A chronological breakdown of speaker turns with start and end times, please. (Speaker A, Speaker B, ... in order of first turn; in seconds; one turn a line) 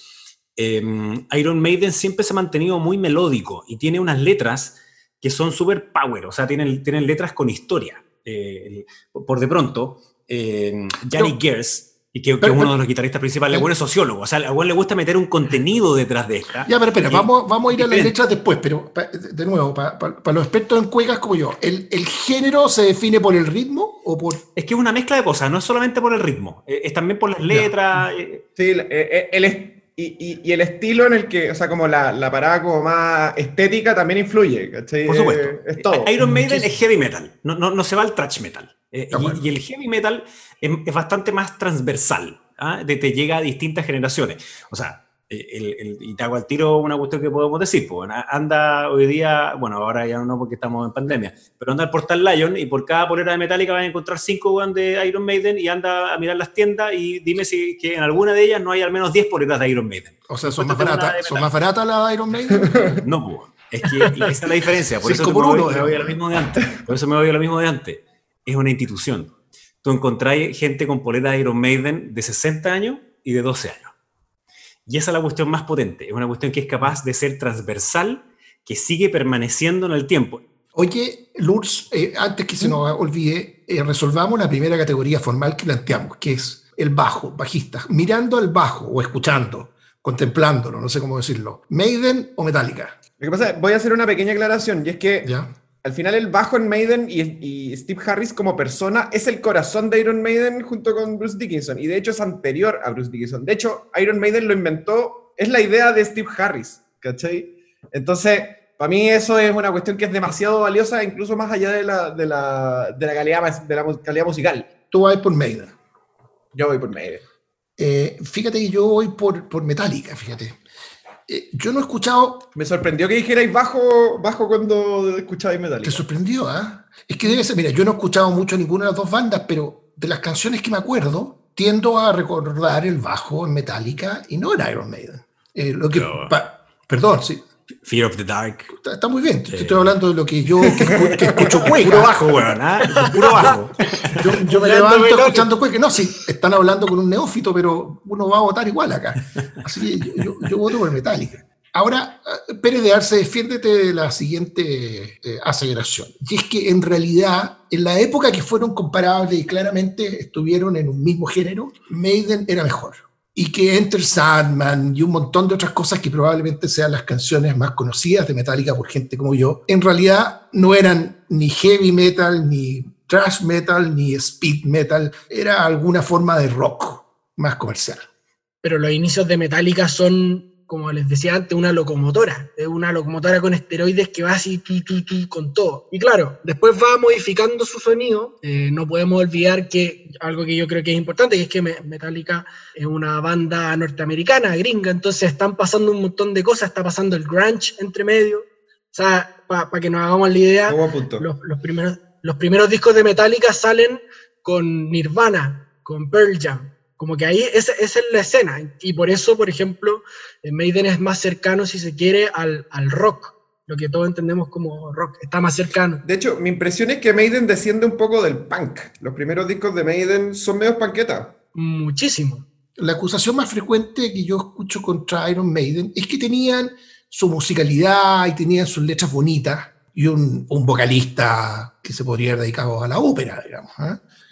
Speaker A: 0.6-18.1
Speaker B: 12.4-12.7
Speaker B: 16.7-24.4
Speaker A: 24.6-28.4
Speaker B: 27.5-28.1
Speaker C: 28.6-36.1
Speaker A: 35.1-61.5
Speaker B: 36.2-36.7
Speaker B: 39.1-39.4
Speaker B: 60.3-62.7
Speaker C: 62.5-63.0
Speaker A: 63.0-73.9
Speaker B: 65.0-66.2
Speaker A: 74.9-80.4
Speaker B: 80.8-93.0
Speaker C: 93.2-95.3
Speaker B: 95.2-95.5
Speaker C: 95.8-114.7
Speaker B: 114.9-115.8
Speaker C: 116.5-117.2
Speaker B: 117.8-120.6
Speaker B: 121.3-122.5
Speaker C: 122.5-126.0
Speaker B: 125.8-137.5
Speaker A: 135.9-136.3
Speaker A: 137.8-138.7
Speaker B: 138.7-142.2
Speaker A: 139.5-139.9
Speaker A: 140.8-144.3
Speaker B: 143.2-178.1
Speaker D: 144.4-145.5
Speaker D: 178.6-216.0
Speaker C: 200.7-201.3
Speaker C: 216.0-221.3
Speaker D: 221.6-222.4
Speaker B: 222.8-234.0